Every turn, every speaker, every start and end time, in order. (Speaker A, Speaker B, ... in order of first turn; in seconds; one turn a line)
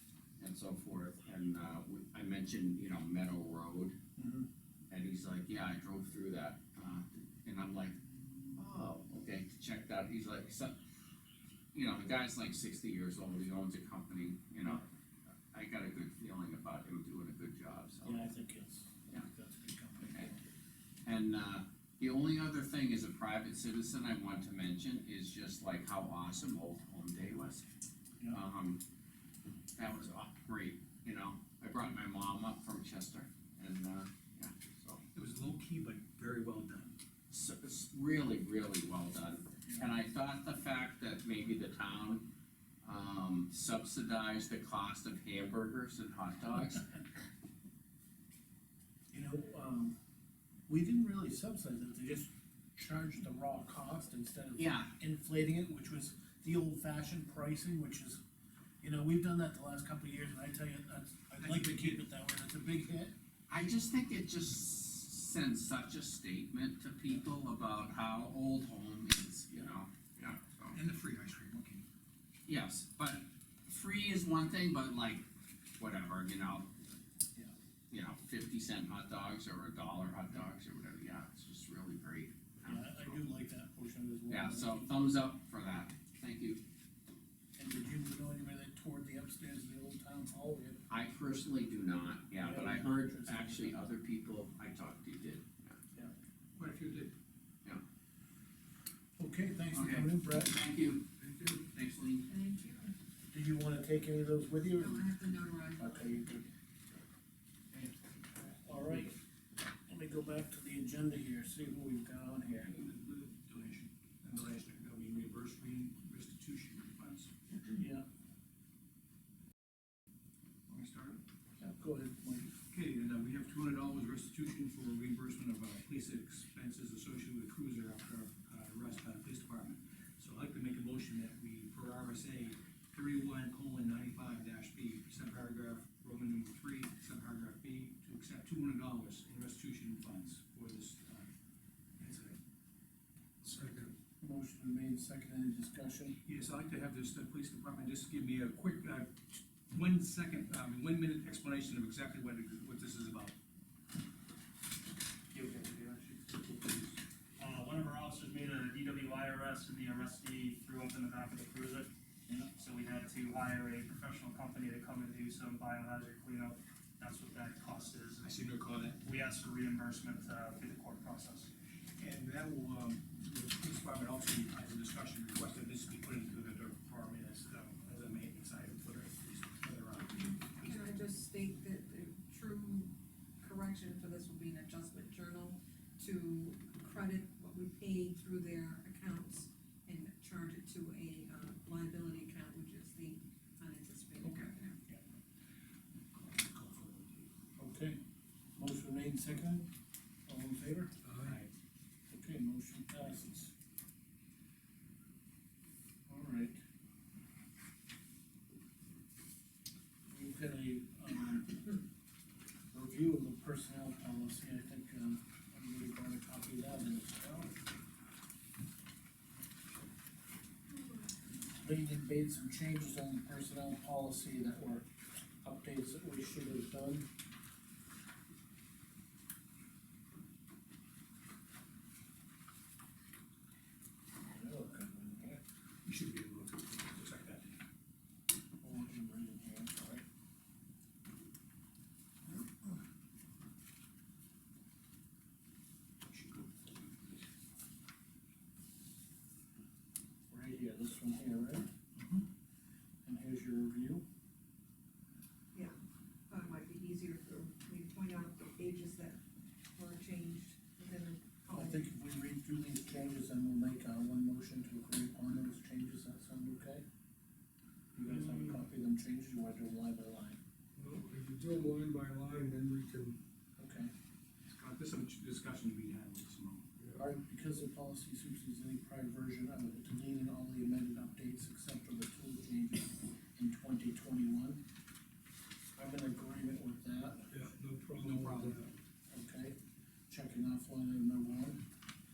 Speaker A: 0.4-4.0
Speaker B: 4.2-4.5
Speaker A: 4.9-8.0
Speaker A: 8.6-10.8
Speaker A: 11.7-14.8
Speaker A: 15.5-18.2
Speaker B: 18.0-20.4
Speaker A: 21.1-27.7
Speaker A: 28.3-28.8
Speaker A: 29.8-35.0
Speaker C: 35.1-37.0
Speaker A: 37.3-42.3
Speaker A: 42.8-46.9
Speaker B: 49.1-50.0
Speaker B: 50.7-58.2
Speaker A: 54.6-54.9
Speaker B: 58.8-63.1
Speaker C: 61.3-62.0
Speaker A: 63.5-70.8
Speaker C: 70.7-71.8
Speaker A: 72.5-75.2
Speaker A: 75.8-76.7
Speaker A: 77.9-83.2
Speaker B: 82.7-85.0
Speaker A: 84.3-86.6
Speaker B: 87.6-90.8
Speaker A: 90.9-95.8
Speaker B: 92.4-93.8
Speaker C: 96.6-97.1
Speaker B: 99.2-100.6
Speaker A: 99.7-102.3
Speaker D: 102.3-102.9
Speaker B: 103.3-105.1
Speaker D: 104.7-106.3
Speaker B: 105.8-106.5
Speaker C: 107.7-108.0
Speaker B: 108.6-109.2
Speaker B: 109.9-112.7
Speaker C: 112.6-117.4
Speaker B: 117.7-118.0
Speaker C: 120.7-121.2
Speaker B: 121.6-122.5
Speaker C: 122.7-141.3
Speaker C: 142.0-142.4
Speaker C: 143.4-143.9
Speaker E: 143.6-143.9
Speaker B: 144.2-146.2
Speaker C: 146.2-153.3
Speaker F: 155.3-156.2
Speaker F: 157.4-161.9
Speaker F: 162.6-168.3
Speaker C: 168.2-169.0
Speaker F: 169.0-171.5
Speaker C: 172.0-180.9
Speaker D: 180.6-194.8
Speaker C: 196.1-197.3
Speaker B: 197.6-198.0
Speaker B: 198.6-199.7
Speaker B: 200.3-201.3
Speaker C: 201.1-201.4
Speaker B: 202.1-203.5
Speaker B: 206.1-206.6
Speaker B: 210.1-211.8
Speaker B: 212.7-217.6
Speaker B: 221.6-224.9
Speaker B: 225.4-227.1
Speaker B: 234.2-235.4
Speaker C: 235.8-237.6
Speaker B: 238.6-240.1
Speaker C: 246.1-247.3
Speaker B: 250.3-251.7
Speaker C: 252.0-252.3
Speaker B: 253.1-254.0
Speaker D: 256.3-259.2
Speaker D: 259.8-261.9
Speaker B: 261.5-266.8
Speaker B: 267.9-270.4
Speaker E: 268.0-268.6
Speaker E: 270.8-273.2
Speaker B: 273.6-273.9
Speaker C: 274.5-276.7
Speaker B: 276.9-284.6
Speaker B: 285.8-287.3
Speaker E: 287.3-288.7
Speaker C: 287.3-288.6
Speaker B: 289.1-289.6
Speaker B: 290.1-291.6